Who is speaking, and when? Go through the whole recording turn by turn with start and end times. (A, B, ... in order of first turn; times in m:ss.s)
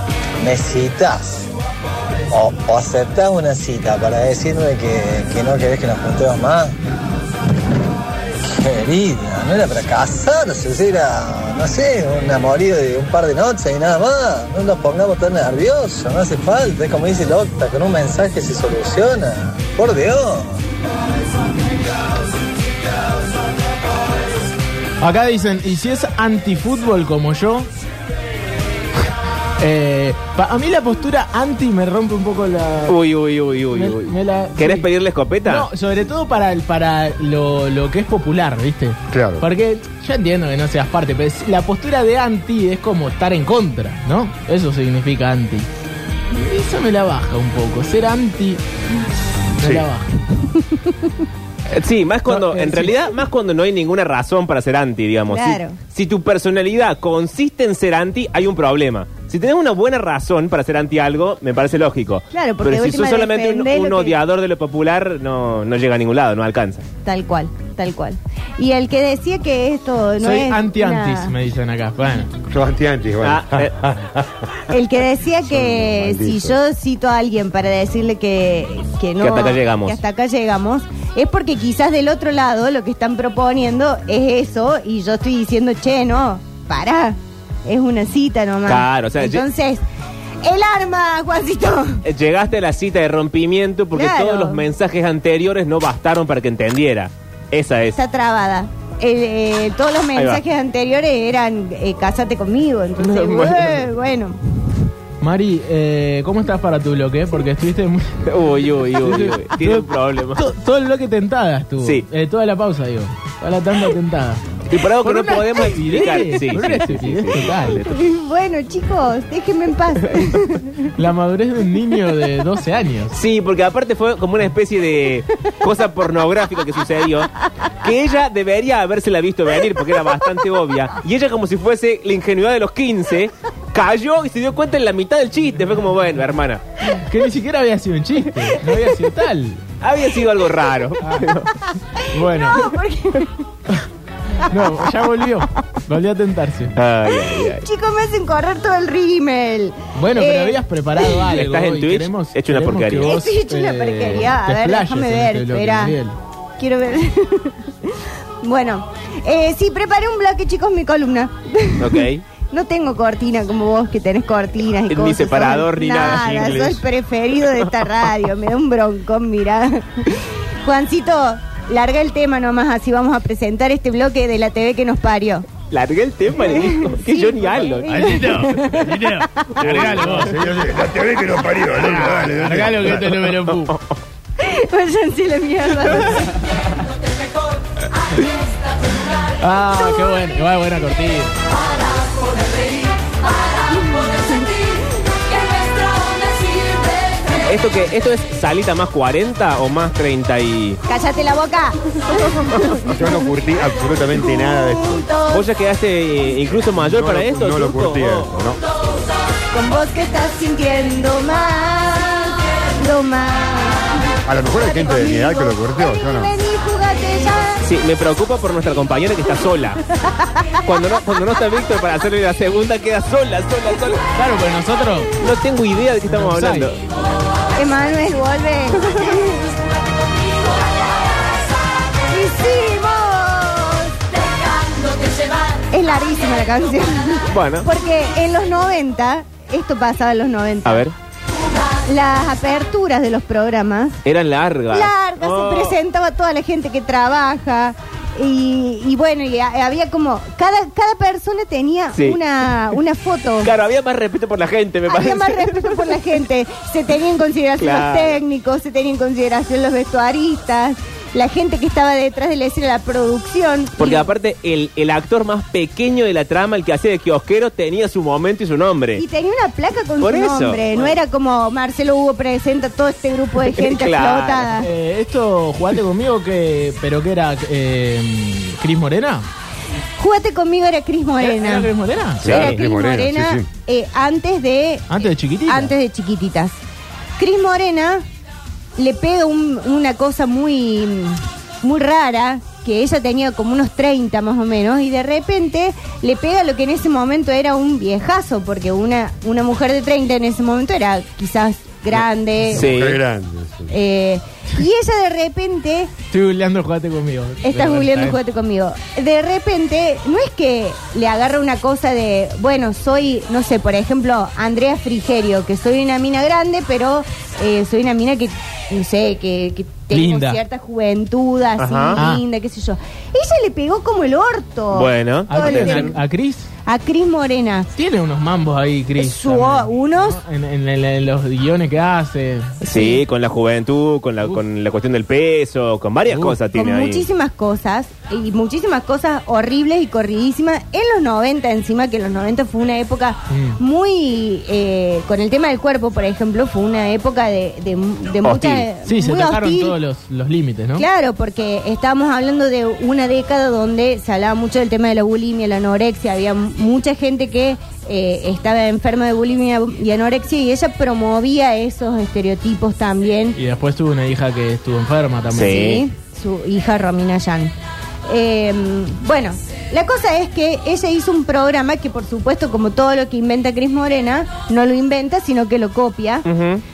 0:00.4-0:01.5 A
0:02.3-0:06.7 A
0:08.5-0:20.6 A
0:25.0-0:27.7 B
0:29.6-0:33.0 B
0:32.9-0:35.7 C
0:33.7-0:34.9 B
0:35.4-0:45.7 B
0:39.1-0:39.4 D
0:46.3-0:48.6 B
0:49.6-0:50.1 B
0:49.6-0:49.9 D
0:51.7-1:06.8 C
0:52.3-0:53.0 B
0:55.3-0:55.8 E
1:02.3-1:04.2 E
1:07.0-1:11.3 E
1:10.2-1:12.3 B
1:12.5-1:14.5 D
1:13.2-1:13.7 C
1:14.7-1:29.8 E
1:15.4-1:16.6 D
1:19.2-1:20.0 C
1:28.6-1:29.4 C
1:30.4-1:32.0 E
1:32.0-1:38.0 C
1:33.9-1:34.6 E
1:37.9-1:44.4 E
1:40.1-1:40.4 C
1:43.0-1:43.9 C
1:45.2-1:48.2 B
1:48.2-1:50.4 C
1:49.0-1:54.4 B
1:54.7-1:58.0 C
1:55.0-1:57.8 B
1:55.7-1:56.2 E
1:57.8-2:00.9 E
2:01.0-2:03.2 B
2:03.1-2:16.6 C
2:16.9-2:19.6 B
2:19.8-2:21.5 C
2:21.0-2:21.3 B
2:22.0-2:23.4 E
2:22.1-2:22.7 B
2:24.5-2:26.7 B
2:26.8-2:27.6 C
2:27.1-2:31.3 E
2:29.9-2:36.2 B
2:31.3-2:33.2 C
2:33.0-2:36.0 E
2:36.6-2:55.5 E
2:41.8-2:42.2 C
2:44.9-2:46.8 C
2:47.4-2:47.7 C
2:55.7-2:58.6 C
2:56.3-3:00.0 E
2:57.9-3:00.4 B
2:59.6-3:00.2 C
2:59.8-3:03.3 D
3:01.8-3:02.2 C
3:02.0-3:03.7 B
3:03.5-3:03.8 C
3:04.4-3:06.3 E
3:09.4-3:11.3 B
3:13.7-3:14.5 E
3:17.4-3:20.8 C
3:20.9-3:22.9 E
3:22.8-3:25.0 D
3:24.4-3:25.4 E
3:25.3-3:28.3 C
3:26.8-3:28.6 D
3:29.5-3:33.9 E
3:34.2-3:36.3 D
3:34.5-3:37.6 E
3:37.6-3:39.8 C
3:40.0-3:40.6 E
3:40.6-3:44.0 C
3:44.2-3:45.1 B
3:45.2-3:46.8 C
3:46.1-3:46.7 B
3:47.6-3:49.4 E
3:52.1-3:53.9 E
3:55.7-4:00.9 E
3:57.3-3:57.7 C
4:00.6-4:00.9 C
4:01.8-4:04.0 E
4:04.0-4:05.8 C
4:04.7-4:13.5 E
4:11.9-4:12.2 C
4:13.4-4:16.0 C
4:14.9-4:24.1 E
4:17.6-4:18.2 C
4:23.8-4:29.0 C
4:29.0-4:34.7 E
4:30.0-4:31.0 C
4:33.4-4:34.5 C
4:34.6-4:39.3 B
4:40.0-4:41.7 E
4:41.2-4:42.3 B
4:42.2-4:43.5 D
4:42.2-4:42.5 C
4:42.2-4:46.6 E
4:44.9-4:45.7 B
4:47.2-4:48.0 E
4:48.8-5:02.7 E
5:02.5-5:03.7 D
5:02.5-5:03.0 C
5:03.7-5:05.9 E
5:06.1-5:08.2 B
5:07.4-5:26.0 E
5:19.9-5:20.4 B
5:21.6-5:22.0 C
5:22.0-5:22.2 B
5:24.7-5:25.9 C
5:25.3-5:26.5 B
5:26.6-5:27.7 E
5:27.7-5:32.5 B
5:29.0-5:30.2 E
5:32.6-5:37.0 C
5:32.7-5:33.0 E
5:36.1-5:36.4 B
5:36.5-5:49.8 E
5:43.3-5:43.6 B
5:48.2-5:48.7 C
5:48.8-5:50.8 B
5:50.8-6:03.4 E
6:03.3-6:05.6 B
6:05.3-6:05.8 C
6:05.4-6:07.5 E
6:08.0-6:16.2 E
6:16.2-6:16.6 C